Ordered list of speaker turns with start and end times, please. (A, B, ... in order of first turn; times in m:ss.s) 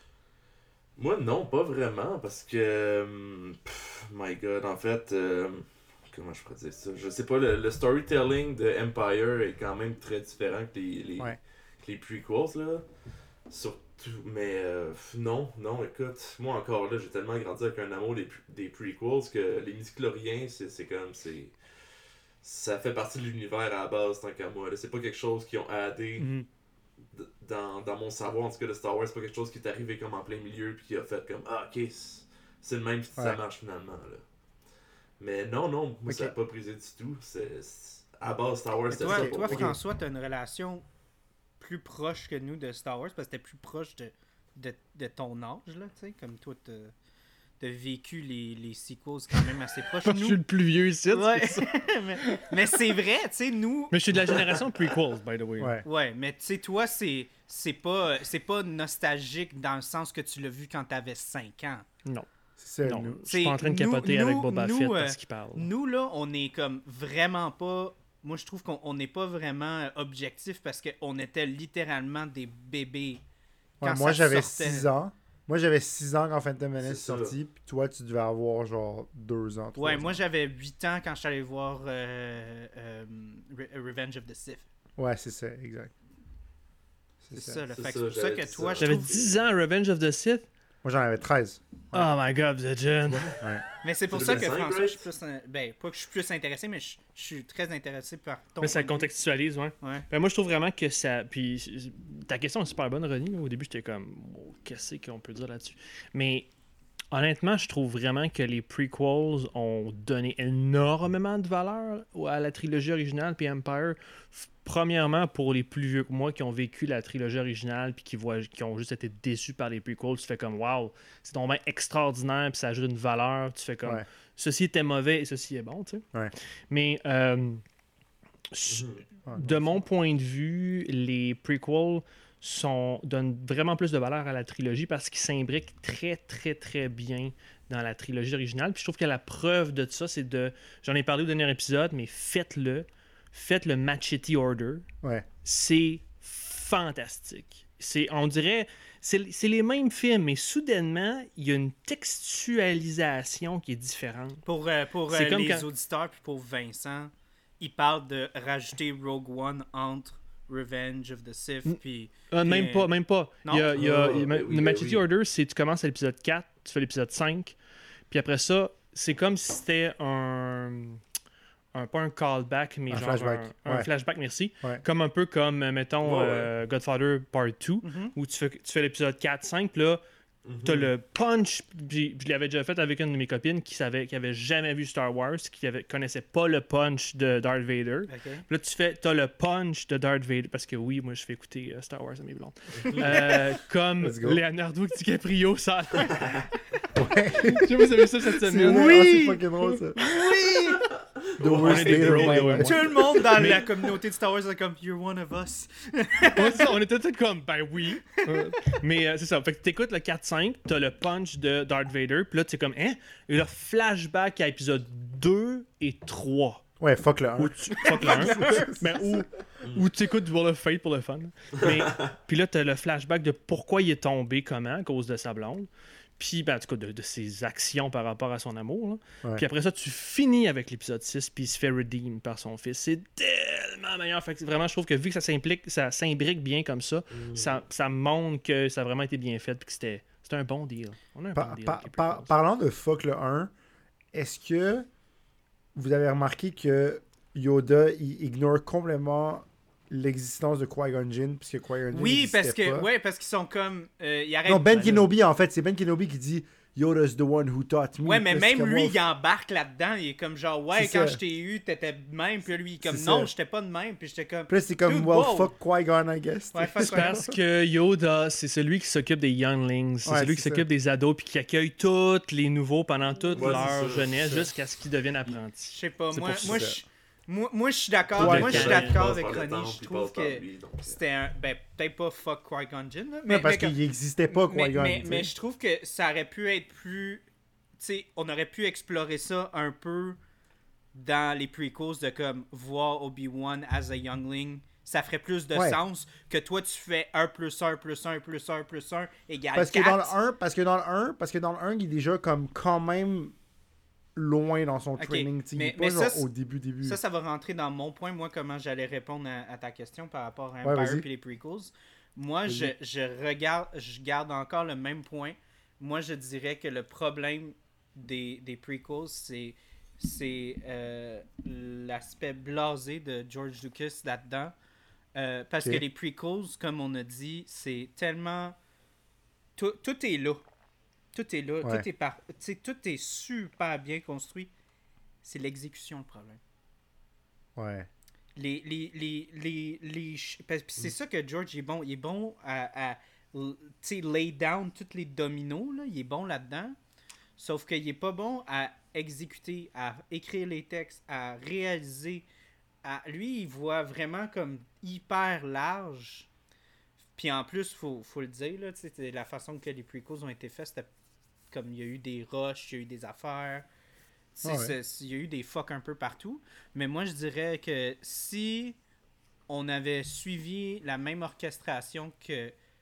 0:01.0-0:12.9 A
0:13.5-0:21.6 A
0:22.4-0:26.3 A
0:26.2-0:26.5 B
0:27.1-0:34.2 A
0:35.2-0:39.7 A
0:36.1-0:36.4 B
0:38.9-0:40.8 C
0:39.0-0:39.8 B
0:41.6-0:46.9 C
0:47.6-0:50.4 C
0:50.0-0:52.8 D
0:51.1-0:54.0 C
0:53.9-0:55.8 D
0:55.6-0:55.9 B
0:55.8-1:01.8 C
1:02.6-1:03.2 B
1:02.8-1:05.7 D
1:03.3-1:13.2 C
1:13.8-1:20.2 B
1:13.8-1:14.9 C
1:16.8-1:17.3 A
1:19.8-1:24.7 C
1:25.0-1:25.9 B
1:27.2-1:27.6 B
1:27.3-1:29.1 C
1:27.7-1:29.4 A
1:28.8-1:30.5 D
1:30.8-1:32.1 B
1:31.9-1:33.4 D
1:33.1-1:33.4 A
1:33.8-1:39.1 C
1:34.1-1:35.0 A
1:38.6-1:46.5 D
1:47.1-2:06.0 D
2:06.7-2:07.6 D
2:08.5-2:24.9 D
2:08.7-2:09.0 A
2:09.3-2:09.7 B
2:25.4-2:34.4 D
2:34.4-2:42.9 C
2:35.1-2:35.7 D
2:42.3-2:47.6 D
2:43.4-2:43.8 C
2:43.8-2:45.0 A
2:48.1-2:51.0 D
2:51.7-3:00.0 D
2:52.9-2:53.9 B
2:56.0-2:56.5 A
2:57.8-2:58.1 C
3:00.4-3:00.9 A
3:00.6-3:16.5 D
3:08.1-3:08.4 C
3:14.0-3:14.4 B
3:16.1-3:16.4 A
3:17.0-3:20.0 B
3:17.4-3:20.8 D
3:21.4-3:22.6 A
3:21.4-3:23.6 D
3:21.4-3:23.2 B
3:22.6-3:26.7 C
3:26.3-3:36.6 D
3:28.2-3:28.5 C
3:36.8-3:39.2 B
3:37.4-4:02.3 D
3:37.9-3:38.7 C
3:41.6-3:42.1 A
3:57.1-3:57.5 A
4:01.3-4:03.5 B
4:04.1-4:04.9 B
4:05.8-4:12.9 B
4:11.9-4:15.1 C
4:14.5-4:19.0 B
4:18.0-4:25.5 C
4:20.7-4:21.2 B
4:22.8-4:23.3 B
4:24.5-4:27.4 B
4:26.5-4:27.2 C
4:26.8-4:36.7 D
4:30.0-4:30.7 B
4:33.3-4:34.4 A
4:35.7-4:43.8 C
4:36.3-4:36.8 B
4:38.2-4:41.0 A
4:38.2-4:39.2 D
4:43.3-4:45.3 B
4:44.3-4:47.2 C
4:47.8-4:50.2 C
4:50.9-5:00.2 C
4:55.5-4:55.8 B
4:59.6-5:03.4 B
5:04.2-5:07.0 B
5:05.0-5:06.3 C
5:06.8-5:24.6 C
5:10.6-5:11.0 B
5:12.5-5:12.7 B
5:25.2-5:28.6 C
5:29.6-5:30.4 C
5:31.1-5:34.5 C
5:35.2-5:36.4 C
5:37.6-5:37.9 B
5:38.4-5:46.8 C
5:47.4-5:52.2 C
5:52.8-5:56.3 C
5:57.2-6:00.9 C
6:01.5-6:03.7 C
6:04.4-6:08.8 C
6:04.4-6:04.7 B
6:09.5-6:12.5 C